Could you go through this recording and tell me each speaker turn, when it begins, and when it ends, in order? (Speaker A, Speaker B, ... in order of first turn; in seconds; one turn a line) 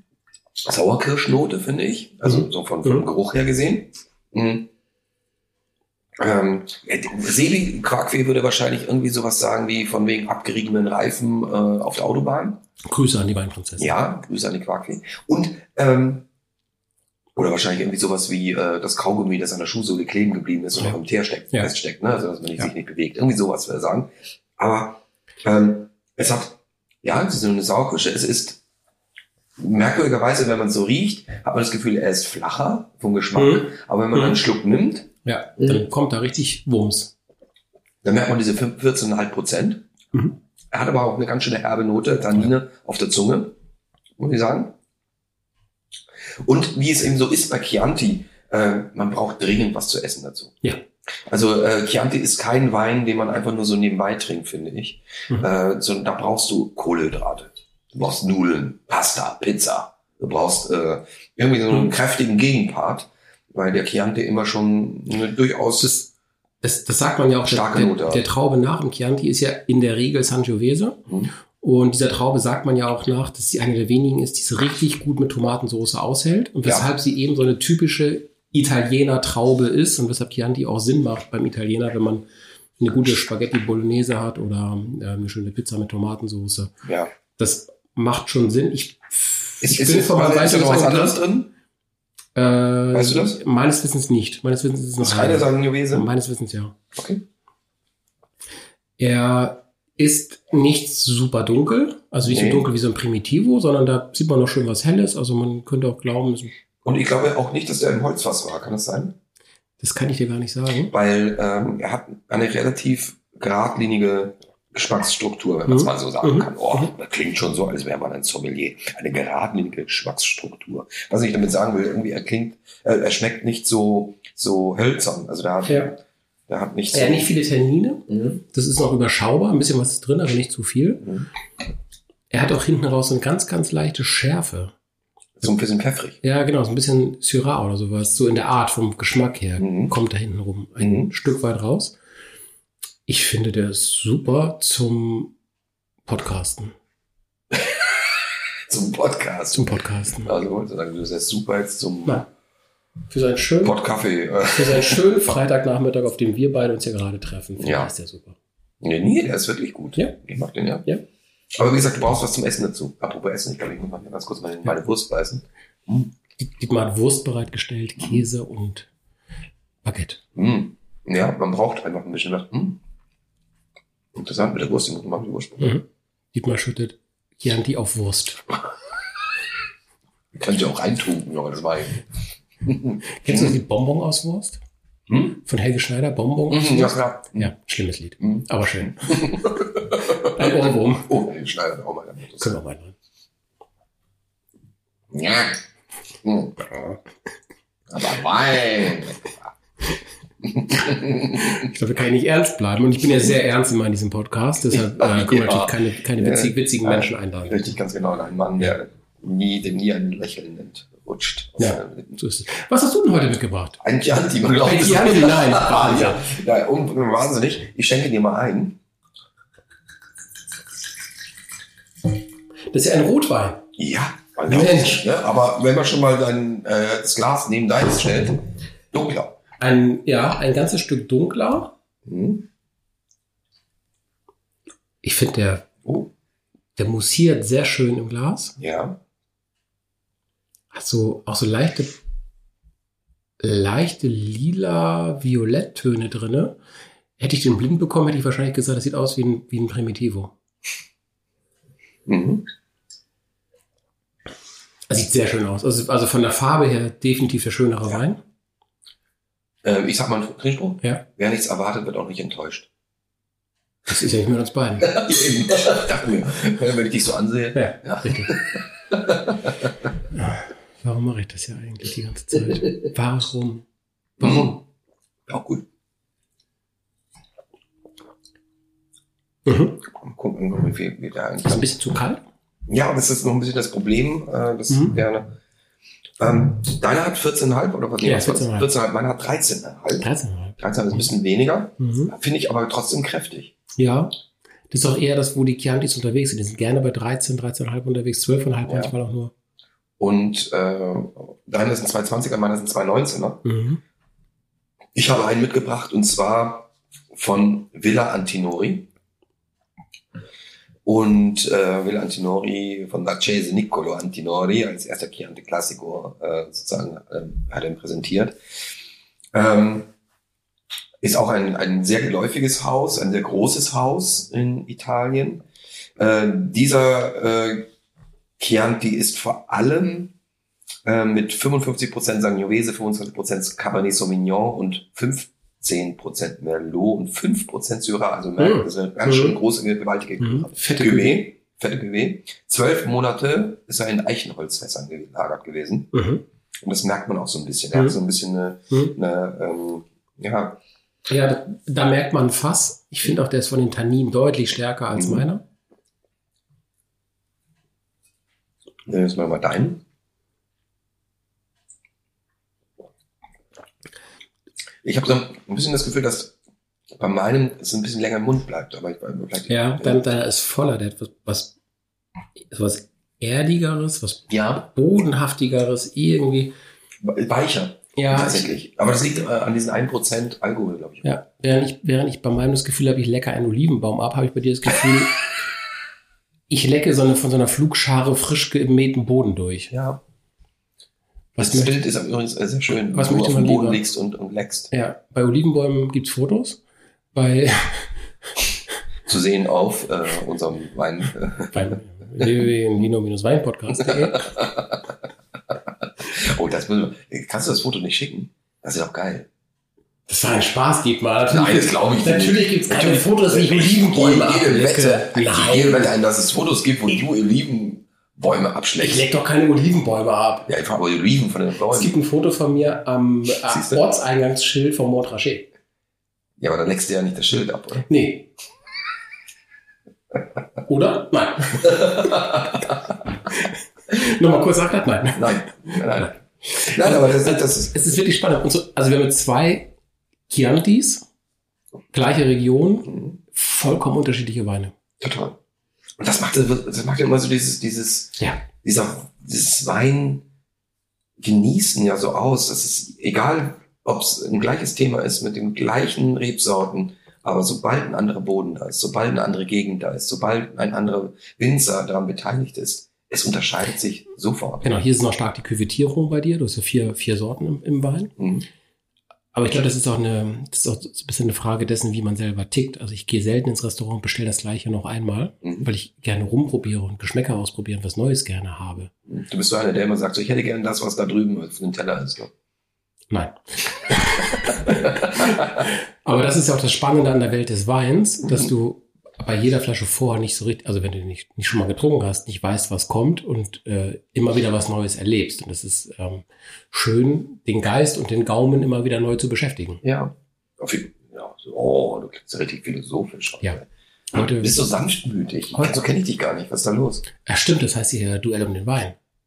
Speaker A: 0.6-4.7
Speaker B: 2.3-3.1
Speaker A: 6.2-12.6
Speaker B: 12.8-13.9
Speaker A: 13.8-16.2
Speaker A: 17.4-28.6
Speaker A: 29.6-35.1
Speaker B: 33.4-34.4
Speaker B: 35.2-37.1
Speaker A: 38.0-39.9
Speaker A: 40.7-43.5
Speaker A: 44.2-44.8
Speaker A: 46.4-50.6
Speaker A: 51.3-65.9
Speaker B: 65.8-66.1
Speaker B: 66.6-71.0
Speaker A: 67.5-68.2
Speaker A: 71.1-71.3
Speaker B: 71.6-82.2
Speaker B: 82.8-86.7
Speaker A: 86.8-87.1
Speaker B: 87.4-91.2
Speaker A: 89.6-91.5
Speaker B: 92.3-96.8
Speaker A: 92.9-93.4
Speaker A: 95.0-96.1
Speaker A: 97.0-97.2
Speaker B: 99.0-106.5
Speaker A: 102.2-102.7
Speaker A: 106.8-109.2
Speaker B: 109.8-110.9
Speaker A: 110.9-127.3
Speaker B: 115.7-116.9
Speaker B: 125.7-125.9
Speaker B: 126.9-131.1
Speaker A: 128.1-128.4
Speaker A: 131.0-131.3
Speaker B: 132.3-134.7
Speaker A: 135.4-136.2
Speaker B: 136.2-142.0
Speaker A: 139.6-139.9
Speaker A: 140.8-141.1
Speaker B: 143.1-145.3
Speaker B: 146.1-146.7
Speaker A: 147.5-152.2
Speaker B: 149.5-150.3
Speaker B: 153.1-153.8
Speaker A: 153.6-155.3
Speaker B: 154.5-158.4
Speaker A: 157.6-157.9
Speaker A: 158.8-160.9
Speaker A: 161.5-166.1
Speaker B: 166.4-168.9
Speaker A: 168.0-168.2
Speaker B: 169.8-170.2
Speaker A: 170.3-172.8
Speaker A: 174.1-175.8
Speaker B: 175.6-178.5
Speaker A: 180.3-182.0
Speaker A: 182.6-183.6
Speaker B: 183.2-184.6
Speaker A: 185.1-185.4
Speaker B: 185.4-189.4
Speaker A: 186.5-187.5
Speaker A: 188.2-192.6
Speaker B: 190.1-191.2
Speaker B: 192.4-192.9
Speaker A: 195.1-195.6
Speaker A: 196.2-196.6
Speaker B: 196.6-197.0
Speaker A: 197.9-199.5
Speaker A: 200.4-201.7
Speaker B: 201.3-207.8
Speaker A: 204.7-212.2
Speaker B: 211.6-213.8
Speaker A: 213.8-218.8
Speaker B: 214.5-216.2
Speaker B: 222.7-223.6
Speaker A: 223.8-229.4
Speaker B: 224.5-225.1
Speaker B: 229.6-231.7
Speaker A: 232.1-232.5
Speaker B: 235.0-235.7
Speaker A: 235.8-236.1
Speaker B: 236.8-238.6
Speaker A: 238.6-239.0
Speaker B: 240.7-242.0
Speaker B: 243.4-246.6
Speaker B: 247.2-250.3
Speaker A: 252.1-252.5
Speaker B: 254.9-258.2
Speaker A: 259.6-262.7
Speaker B: 263.9-265.0
Speaker A: 264.8-269.7
Speaker B: 267.5-268.4
Speaker B: 270.1-273.6
Speaker A: 274.2-274.6
Speaker B: 274.2-274.5
Speaker A: 275.3-275.6
Speaker B: 279.5-279.8
Speaker A: 279.8-281.7
Speaker B: 281.4-282.2
Speaker A: 282.7-285.3
Speaker B: 284.7-285.0
Speaker A: 286.2-293.6
Speaker B: 288.0-288.7
Speaker B: 290.0-291.1
Speaker B: 291.8-292.1
Speaker B: 293.8-294.1
Speaker B: 294.7-299.3
Speaker A: 298.6-298.9
Speaker A: 300.0-303.4
Speaker B: 303.4-303.8
Speaker A: 304.9-308.9
Speaker A: 310.9-318.4
Speaker A: 319.3-319.9
Speaker A: 321.0-325.4
Speaker A: 326.0-327.7
Speaker A: 328.4-330.1
Speaker A: 330.9-345.9
Speaker B: 338.4-339.4
Speaker B: 340.2-341.2
Speaker B: 345.9-346.2
Speaker A: 346.6-350.6
Speaker B: 347.7-348.0
Speaker B: 351.1-355.4
Speaker A: 354.9-355.2
Speaker A: 358.9-359.8
Speaker A: 364.8-366.4
Speaker A: 367.0-370.0
Speaker B: 369.5-371.6
Speaker B: 372.4-376.5
Speaker A: 374.3-374.6
Speaker A: 377.0-381.1
Speaker B: 377.9-378.5
Speaker B: 381.0-385.2
Speaker B: 386.5-389.7
Speaker A: 389.7-390.0
Speaker B: 391.4-391.7
Speaker A: 391.4-394.7
Speaker B: 392.9-393.8
Speaker B: 394.7-396.6
Speaker B: 397.1-397.9
Speaker A: 399.1-401.7
Speaker B: 401.5-404.3
Speaker A: 403.8-404.9
Speaker A: 406.0-409.3
Speaker B: 410.1-415.9
Speaker A: 411.3-419.1
Speaker B: 418.8-420.5
Speaker A: 420.5-421.9
Speaker B: 421.7-425.5
Speaker A: 423.4-423.8
Speaker A: 426.4-427.9
Speaker B: 427.9-428.3
Speaker B: 430.6-432.4
Speaker A: 431.6-432.8
Speaker B: 433.3-435.5
Speaker A: 435.1-437.9
Speaker B: 436.5-439.7
Speaker B: 440.3-441.1
Speaker B: 441.9-444.7
Speaker A: 442.9-443.2
Speaker A: 445.0-445.4
Speaker A: 446.0-450.2
Speaker A: 451.2-464.8
Speaker B: 464.6-468.1
Speaker A: 468.2-468.5
Speaker B: 469.3-478.9
Speaker A: 475.4-475.7
Speaker A: 479.1-482.3
Speaker B: 483.1-499.8
Speaker A: 484.5-485.6
Speaker A: 499.8-507.0
Speaker B: 504.1-504.5
Speaker B: 507.2-509.0